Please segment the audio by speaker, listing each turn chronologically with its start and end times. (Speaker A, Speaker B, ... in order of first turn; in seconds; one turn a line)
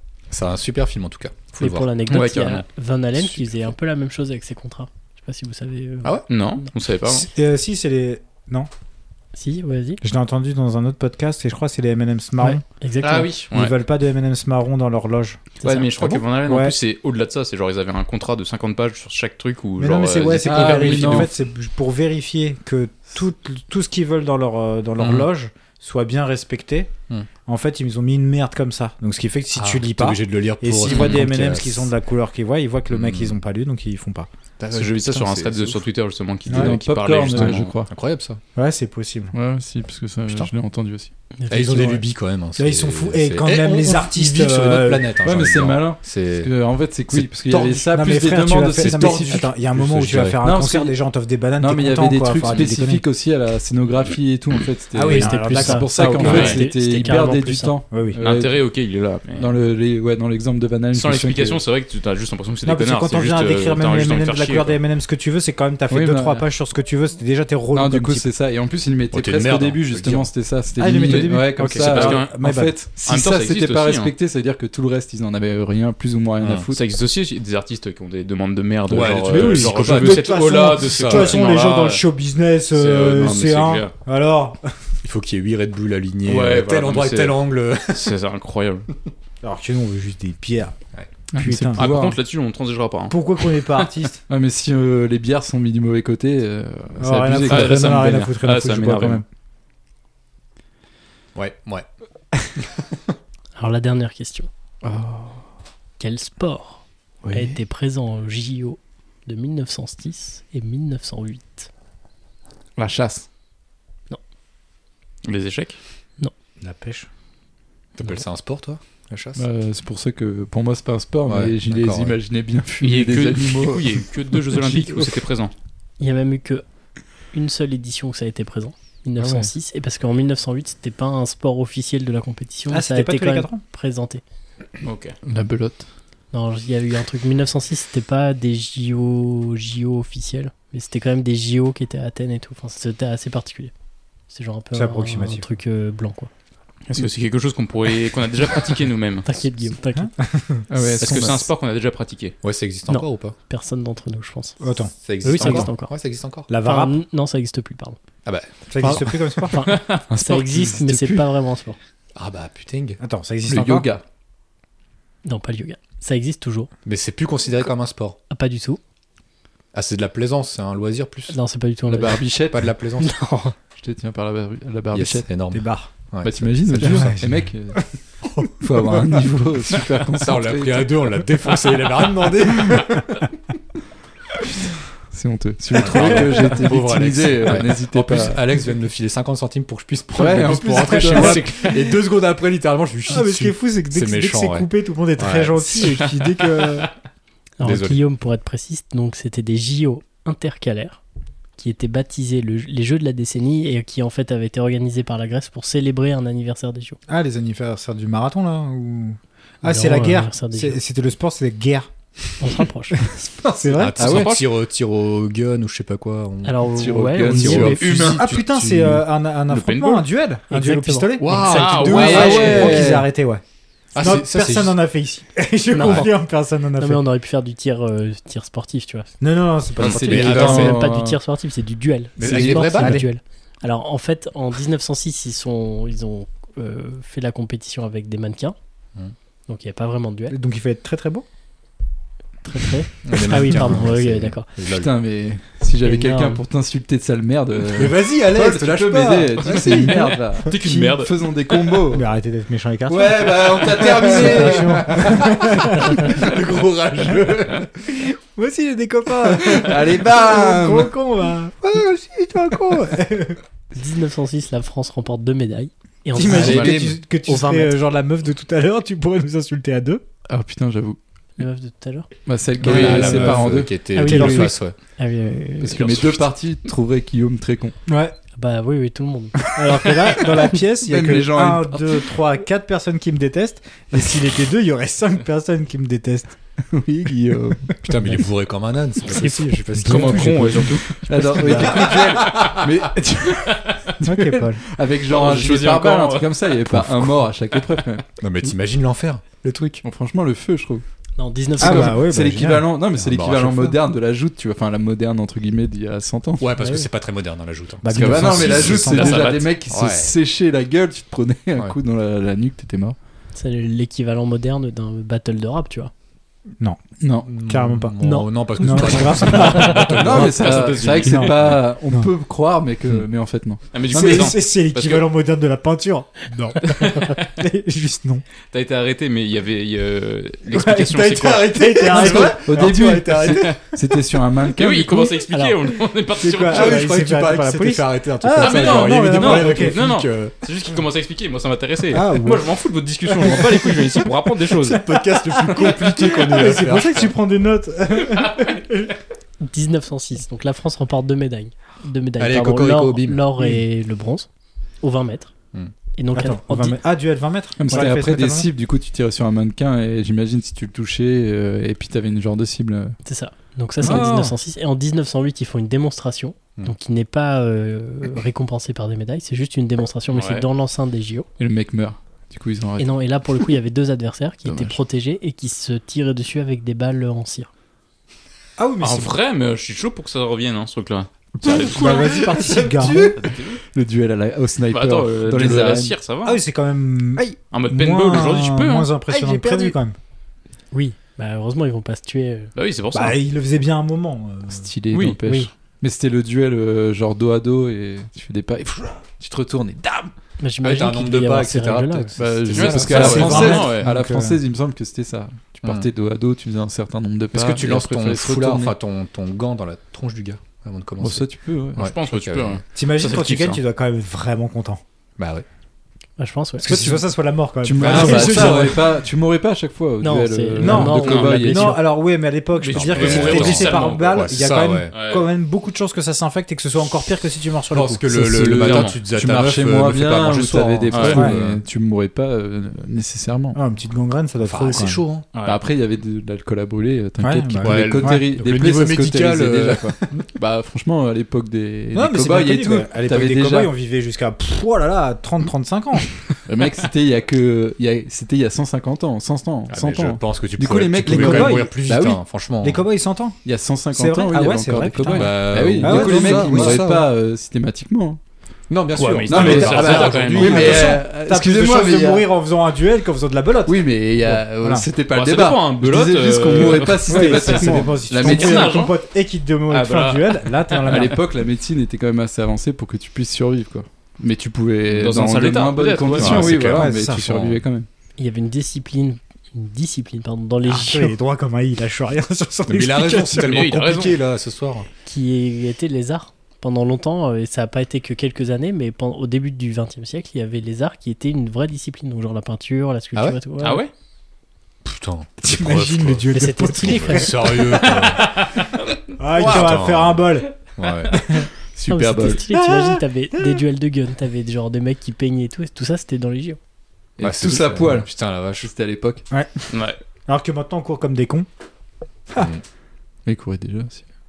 Speaker A: 0.3-2.0
Speaker B: 1.6-6.2
Speaker C: 2.1-2.6
Speaker C: 6.3-7.3
Speaker D: 7.0-8.7
Speaker B: 9.3-10.0
Speaker D: 10.0-12.6
Speaker B: 12.4-13.3
Speaker C: 13.0-13.7
Speaker D: 13.5-16.7
Speaker B: 15.6-15.9
Speaker C: 15.6-21.3
Speaker D: 19.8-26.9
Speaker E: 20.4-21.3
Speaker A: 25.0-25.3
Speaker D: 27.4-34.3
Speaker A: 29.5-31.9
Speaker C: 30.9-31.2
Speaker A: 32.9-33.4
Speaker A: 34.6-35.9
Speaker C: 34.7-37.8
Speaker D: 36.5-36.8
Speaker E: 36.5-37.9
Speaker A: 37.9-38.4
Speaker D: 38.5-39.3
Speaker E: 39.3-41.1
Speaker B: 41.4-42.0
Speaker A: 41.5-46.5
Speaker D: 42.5-45.1
Speaker E: 45.2-51.0
Speaker D: 47.3-53.0
Speaker A: 48.8-50.4
Speaker E: 51.6-58.7
Speaker D: 54.9-56.5
Speaker B: 55.1-57.7
Speaker C: 56.2-56.6
Speaker D: 57.9-58.2
Speaker C: 58.2-59.5
Speaker E: 59.4-61.6
Speaker C: 60.9-64.8
Speaker D: 62.6-68.3
Speaker E: 65.9-66.5
Speaker E: 67.7-76.8
Speaker A: 69.1-70.3
Speaker D: 70.8-72.9
Speaker A: 70.8-71.5
Speaker C: 71.6-72.4
Speaker C: 73.0-74.1
Speaker A: 76.4-76.7
Speaker C: 76.7-82.0
Speaker A: 78.9-81.5
Speaker E: 79.0-79.6
Speaker D: 79.3-84.7
Speaker C: 82.7-83.9
Speaker A: 85.0-88.1
Speaker C: 86.2-88.9
Speaker D: 89.4-90.8
Speaker E: 91.3-92.2
Speaker D: 91.3-91.9
Speaker C: 91.8-93.9
Speaker D: 93.1-94.2
Speaker E: 94.3-98.1
Speaker D: 97.0-99.2
Speaker C: 97.5-99.2
Speaker A: 101.3-101.8
Speaker B: 103.5-104.5
Speaker E: 104.8-105.4
Speaker B: 106.0-111.7
Speaker E: 107.2-107.6
Speaker E: 112.8-113.2
Speaker C: 115.2-115.8
Speaker D: 116.6-117.1
Speaker A: 118.0-119.4
Speaker E: 119.3-125.0
Speaker A: 121.3-122.2
Speaker C: 122.8-125.5
Speaker B: 126.0-126.6
Speaker B: 127.3-134.2
Speaker E: 129.2-129.5
Speaker D: 132.7-133.6
Speaker C: 134.8-135.2
Speaker E: 135.2-135.9
Speaker B: 136.3-143.7
Speaker B: 144.3-146.3
Speaker D: 144.7-145.5
Speaker C: 146.9-149.4
Speaker B: 149.2-150.1
Speaker D: 149.9-150.7
Speaker E: 150.7-151.4
Speaker C: 151.0-152.3
Speaker A: 152.4-153.3
Speaker B: 152.9-154.6
Speaker D: 154.6-155.7
Speaker A: 155.0-156.5
Speaker B: 155.2-155.9
Speaker D: 156.5-157.0
Speaker B: 156.6-158.0
Speaker A: 158.2-159.2
Speaker D: 158.7-159.7
Speaker B: 159.5-161.8
Speaker C: 159.6-160.0
Speaker E: 160.1-161.2
Speaker A: 162.1-163.0
Speaker D: 163.0-163.9
Speaker E: 163.4-164.0
Speaker B: 165.2-166.7
Speaker A: 166.8-168.2
Speaker B: 168.3-168.8
Speaker A: 169.7-171.3
Speaker B: 171.3-172.4
Speaker E: 171.9-172.7
Speaker A: 172.5-173.1
Speaker B: 173.0-173.5
Speaker E: 173.8-175.3
Speaker A: 174.9-177.2
Speaker D: 175.5-175.9
Speaker E: 176.2-177.9
Speaker D: 176.8-177.8
Speaker E: 178.6-181.1
Speaker A: 180.2-183.0
Speaker E: 185.1-188.4
Speaker A: 185.8-196.0
Speaker E: 190.1-191.7
Speaker D: 190.6-191.8
Speaker D: 193.1-196.9
Speaker B: 197.6-201.0
Speaker A: 197.6-198.0
Speaker B: 201.6-207.0
Speaker D: 207.1-211.9
Speaker B: 209.6-210.8
Speaker B: 212.4-213.0
Speaker D: 213.0-214.1
Speaker A: 213.5-219.0
Speaker C: 214.0-214.4
Speaker E: 214.0-214.3
Speaker B: 216.4-217.9
Speaker E: 216.7-218.3
Speaker D: 218.0-223.4
Speaker C: 219.5-220.1
Speaker B: 220.5-221.6
Speaker A: 221.2-222.9
Speaker C: 221.4-222.7
Speaker E: 221.4-223.1
Speaker A: 223.9-224.8
Speaker D: 223.9-227.0
Speaker B: 225.7-226.1
Speaker A: 225.8-226.1
Speaker B: 226.8-229.1
Speaker D: 229.2-230.7
Speaker A: 229.8-230.8
Speaker E: 229.8-231.2
Speaker B: 230.1-238.6
Speaker A: 232.2-233.0
Speaker E: 232.2-232.9
Speaker D: 232.7-233.1
Speaker B: 239.5-240.4
Speaker D: 240.3-241.2
Speaker B: 242.4-244.5
Speaker A: 243.0-244.9
Speaker E: 244.7-252.1
Speaker B: 245.8-246.4
Speaker A: 247.7-250.2
Speaker C: 250.4-251.1
Speaker D: 250.5-250.9
Speaker D: 251.9-256.1
Speaker E: 252.9-255.1
Speaker A: 253.2-257.7
Speaker D: 257.8-263.4
Speaker E: 259.4-260.9
Speaker B: 263.7-267.8
Speaker D: 266.1-270.0
Speaker E: 266.3-266.9
Speaker C: 266.4-266.7
Speaker E: 270.3-271.0
Speaker B: 271.4-272.1
Speaker E: 272.2-273.7
Speaker D: 272.6-274.5
Speaker A: 272.6-274.7
Speaker B: 273.9-276.0
Speaker E: 275.6-277.8
Speaker D: 277.9-278.1
Speaker B: 278.3-279.9
Speaker D: 279.5-286.4
Speaker E: 280.8-282.1
Speaker E: 286.7-287.8
Speaker A: 287.8-290.6
Speaker B: 289.1-289.4
Speaker D: 289.1-290.8
Speaker C: 289.9-292.5
Speaker E: 289.9-298.0
Speaker D: 291.4-291.9
Speaker A: 291.4-292.9
Speaker C: 293.5-293.8
Speaker D: 294.0-294.6
Speaker C: 295.1-296.4
Speaker A: 296.7-297.1
Speaker A: 298.2-299.8
Speaker E: 299.8-300.8
Speaker B: 301.2-302.0
Speaker D: 301.6-302.9
Speaker E: 301.6-306.6
Speaker A: 303.0-303.7
Speaker A: 306.4-310.1
Speaker D: 307.8-309.3
Speaker E: 307.9-312.9
Speaker C: 308.6-309.5
Speaker B: 313.3-315.9
Speaker D: 316.6-317.9
Speaker E: 317.0-317.3
Speaker A: 317.3-320.8
Speaker B: 318.0-319.9
Speaker D: 318.6-322.1
Speaker E: 320.0-324.2
Speaker C: 320.2-321.5
Speaker C: 323.7-325.0
Speaker D: 323.9-328.2
Speaker C: 326.6-327.2
Speaker C: 328.5-331.5
Speaker D: 330.5-333.3
Speaker A: 330.6-333.6
Speaker E: 332.0-335.1
Speaker C: 333.3-333.6
Speaker C: 334.4-336.8
Speaker D: 336.2-339.8
Speaker A: 336.4-340.3
Speaker C: 338.4-344.8
Speaker D: 341.9-342.5
Speaker D: 343.1-344.1
Speaker A: 344.6-347.1
Speaker D: 344.7-348.9
Speaker B: 349.4-354.3
Speaker A: 352.2-353.2
Speaker B: 354.8-355.3
Speaker B: 355.9-356.8
Speaker D: 356.1-358.5
Speaker E: 357.6-363.0
Speaker B: 363.0-371.3
Speaker D: 363.8-364.3
Speaker E: 363.8-364.2
Speaker C: 370.1-370.4
Speaker E: 371.4-372.9
Speaker B: 372.8-377.5
Speaker E: 374.4-374.7
Speaker D: 378.6-379.1
Speaker C: 378.8-383.6
Speaker D: 381.4-383.1
Speaker E: 381.4-385.9
Speaker C: 384.7-386.4
Speaker D: 386.2-389.9
Speaker C: 387.5-388.9
Speaker B: 390.7-392.5
Speaker C: 392.5-393.2
Speaker D: 392.9-394.7
Speaker E: 394.5-400.1
Speaker C: 394.9-395.2
Speaker B: 400.4-402.1
Speaker A: 400.6-403.6
Speaker E: 402.2-408.7
Speaker C: 402.5-403.9
Speaker D: 402.9-404.4
Speaker A: 407.3-412.6
Speaker E: 411.0-411.9
Speaker C: 411.8-413.6
Speaker D: 412.7-414.8
Speaker A: 415.2-415.4
Speaker B: 416.2-416.7
Speaker D: 416.6-418.8
Speaker E: 416.7-417.0
Speaker E: 417.6-421.8
Speaker A: 417.8-418.9
Speaker B: 420.0-421.8
Speaker D: 420.6-428.1
Speaker C: 422.5-424.3
Speaker A: 422.7-424.9
Speaker C: 424.9-425.3
Speaker A: 427.7-431.6
Speaker E: 428.1-433.6
Speaker C: 428.6-429.0
Speaker C: 430.9-431.2
Speaker D: 431.1-431.4
Speaker D: 433.5-435.0
Speaker A: 434.4-435.2
Speaker C: 435.3-435.6
Speaker E: 435.4-443.7
Speaker D: 437.2-438.3
Speaker A: 437.6-440.2
Speaker D: 441.9-446.2
Speaker E: 446.4-452.2
Speaker A: 449.7-452.8
Speaker D: 451.1-451.7
Speaker D: 452.6-453.4
Speaker E: 453.4-458.2
Speaker D: 453.9-456.8
Speaker A: 455.1-457.1
Speaker A: 458.7-461.0
Speaker C: 458.9-460.9
Speaker E: 459.3-462.2
Speaker D: 459.3-464.9
Speaker E: 463.6-468.8
Speaker C: 465.1-468.9
Speaker D: 467.0-471.2
Speaker C: 469.7-471.0
Speaker E: 470.9-477.9
Speaker C: 474.9-476.9
Speaker A: 476.2-476.8
Speaker D: 476.5-477.6
Speaker B: 478.2-481.1
Speaker D: 480.6-483.6
Speaker A: 482.7-484.9
Speaker C: 483.4-484.2
Speaker B: 485.1-493.8
Speaker C: 493.6-493.9
Speaker A: 494.8-498.4
Speaker D: 495.4-498.4
Speaker B: 496.3-497.9
Speaker C: 497.9-498.4
Speaker D: 499.2-501.5
Speaker A: 499.4-501.3
Speaker E: 501.8-502.4
Speaker B: 501.9-506.6
Speaker D: 502.5-503.6
Speaker E: 507.2-509.2
Speaker A: 507.2-508.7
Speaker D: 509.3-509.6
Speaker C: 509.7-510.0
Speaker D: 510.3-511.5
Speaker A: 512.4-512.6
Speaker E: 513.2-514.0